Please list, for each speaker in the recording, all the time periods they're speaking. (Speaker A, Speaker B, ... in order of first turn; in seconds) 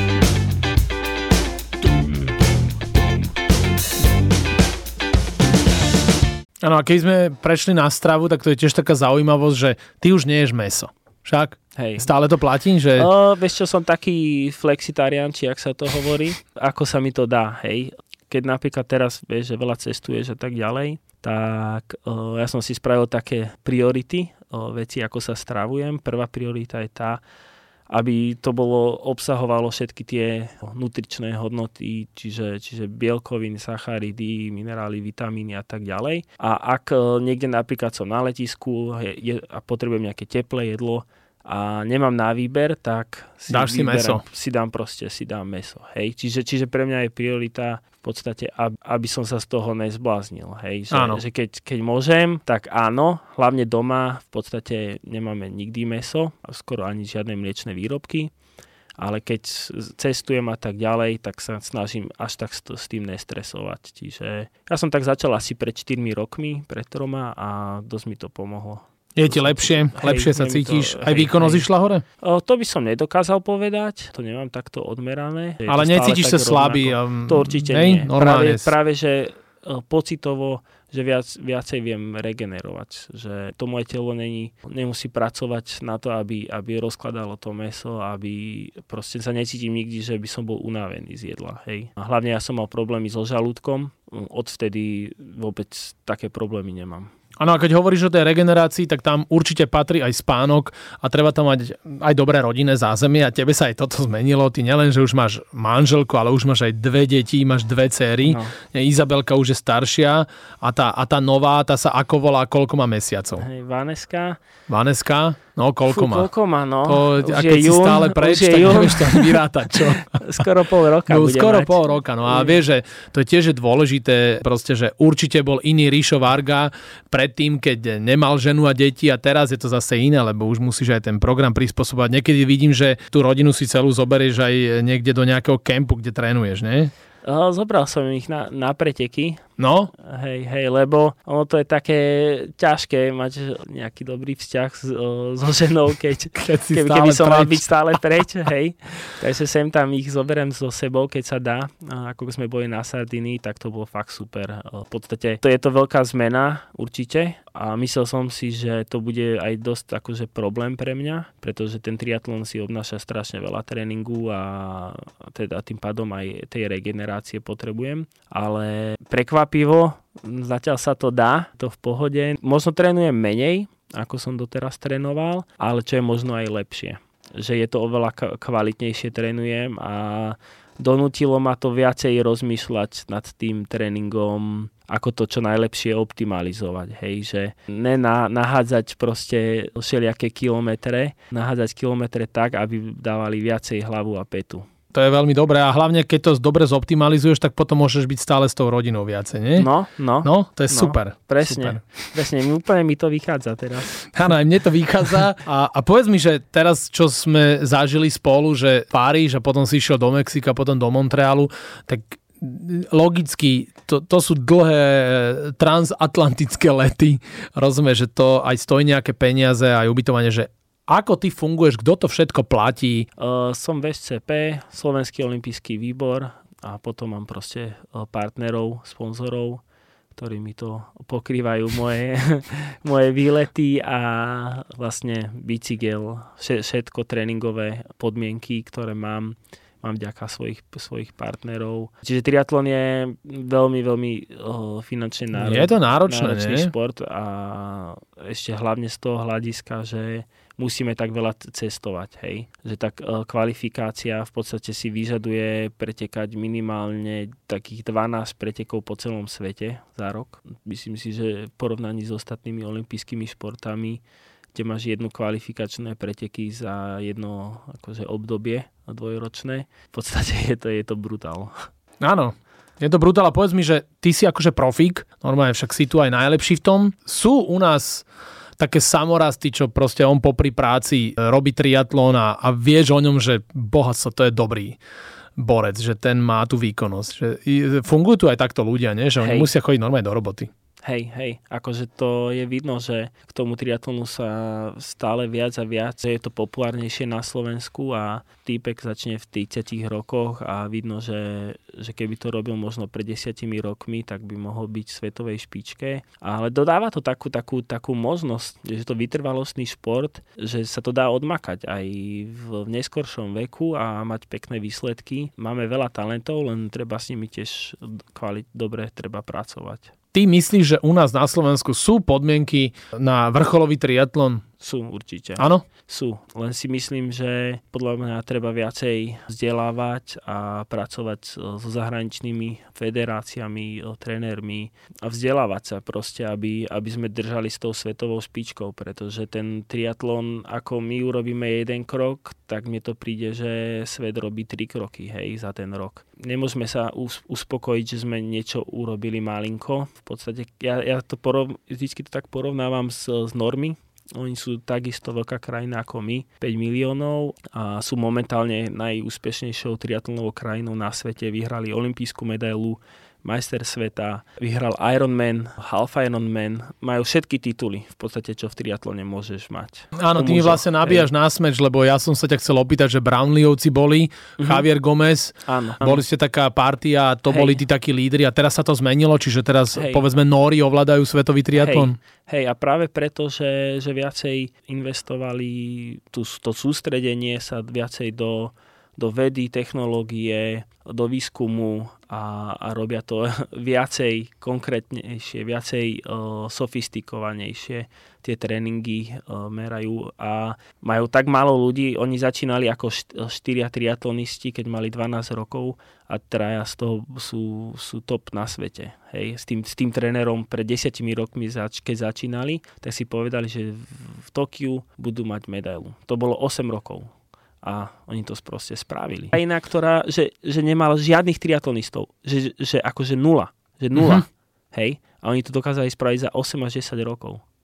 Speaker A: 6.6-13.1, 43.5-44.2, 50.9-51.2, 69.2-72.0, 75.7-78.7, 97.4-113.5, 114.7-116.3, 116.9-120.4, 121.1-136.9, 139.6-139.9, 146.4-148.0, 194.9-199.7, 200.2-201.8, 204.0-223.1, 245.3-246.7, 272.0-278.1, 278.6-284.8, 285.4-290.5, 320.1-324.4, 325.4-325.6, 370.0-382.0, 423.9-424.2
Speaker B: 11.8-12.1, 13.0-27.2, 27.9-58.3, 59.0-71.7, 72.2-97.1, 108.2-108.5, 113.4-114.4, 115.9-122.6, 137.2-139.4, 140.0-194.7, 199.6-204.0, 223.2-229.6, 230.2-264.0, 264.5-271.7, 289.2-289.5, 290.8-319.9, 324.6-371.1, 374.4-374.7, 375.5-376.0, 377.3-377.6, 379.7-380.1, 381.5-417.1, 417.6-427.4